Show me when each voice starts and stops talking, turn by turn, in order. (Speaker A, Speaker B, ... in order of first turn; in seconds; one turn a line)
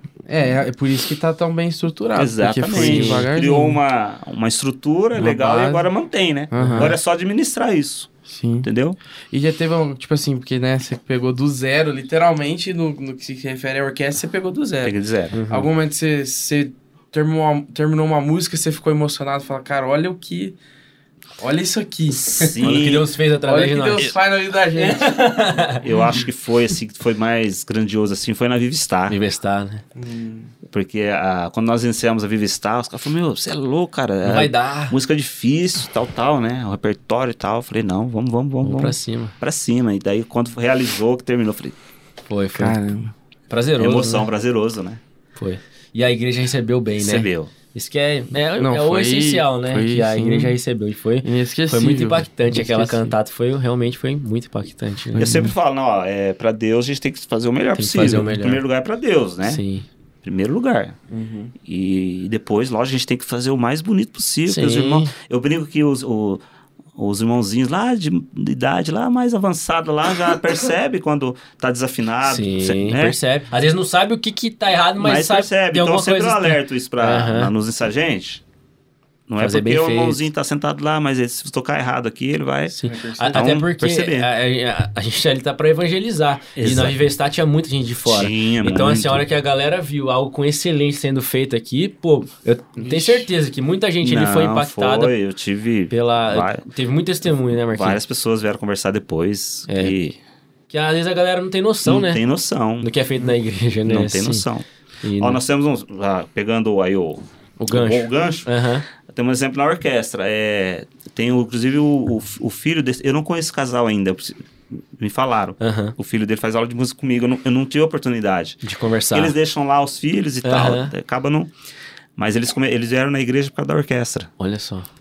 Speaker A: 0.3-3.8
Speaker B: 2.1-8.1
Speaker C: 2.7-3.3
Speaker A: 5.2-5.9
Speaker A: 6.5-7.0
Speaker C: 6.5-6.9
Speaker A: 8.3-8.7
Speaker B: 8.6-9.0
Speaker A: 9.3-15.0
Speaker B: 14.8-15.4
Speaker C: 15.3-15.7
Speaker A: 15.5-20.6
Speaker A: 21.4-22.6
Speaker B: 22.1-23.1
Speaker C: 22.6-24.1
Speaker A: 23.4-25.3
Speaker C: 24.8-25.9
Speaker B: 25.8-29.2
Speaker C: 29.1-29.8
Speaker A: 30.0-30.5
Speaker B: 30.7-41.8
Speaker C: 34.2-35.0
Speaker C: 38.6-39.4
Speaker C: 42.3-42.8
Speaker A: 42.5-43.1
Speaker C: 43.5-44.3
Speaker B: 43.8-45.0
Speaker C: 45.4-55.4
Speaker B: 47.0-47.5
Speaker A: 48.6-50.6
Speaker A: 51.2-53.1
Speaker A: 55.1-55.5
Speaker B: 55.2-59.6
Speaker C: 57.8-58.6
Speaker C: 59.4-59.9
Speaker B: 60.2-61.0
Speaker A: 61.1-61.5
Speaker B: 61.6-66.4
Speaker C: 64.5-65.1
Speaker B: 67.0-73.2
Speaker C: 72.2-77.5
Speaker B: 75.0-78.4
Speaker B: 79.3-82.8
Speaker C: 79.4-80.2
Speaker C: 82.7-95.1
Speaker A: 82.8-83.5
Speaker B: 83.3-84.3
Speaker B: 86.6-87.0
Speaker B: 88.1-89.2
Speaker A: 92.8-93.3
Speaker B: 94.0-96.7
Speaker C: 95.9-98.0
Speaker B: 97.7-100.2
Speaker C: 99.7-100.0
Speaker C: 100.7-102.2
Speaker B: 101.8-102.9
Speaker C: 102.8-104.5
Speaker B: 103.9-104.7
Speaker C: 105.0-105.4
Speaker B: 105.2-118.6
Speaker C: 107.6-108.8
Speaker C: 115.6-116.0
Speaker C: 118.6-119.4
Speaker B: 119.1-121.5
Speaker C: 120.4-120.9
Speaker B: 122.2-124.3
Speaker C: 124.4-124.9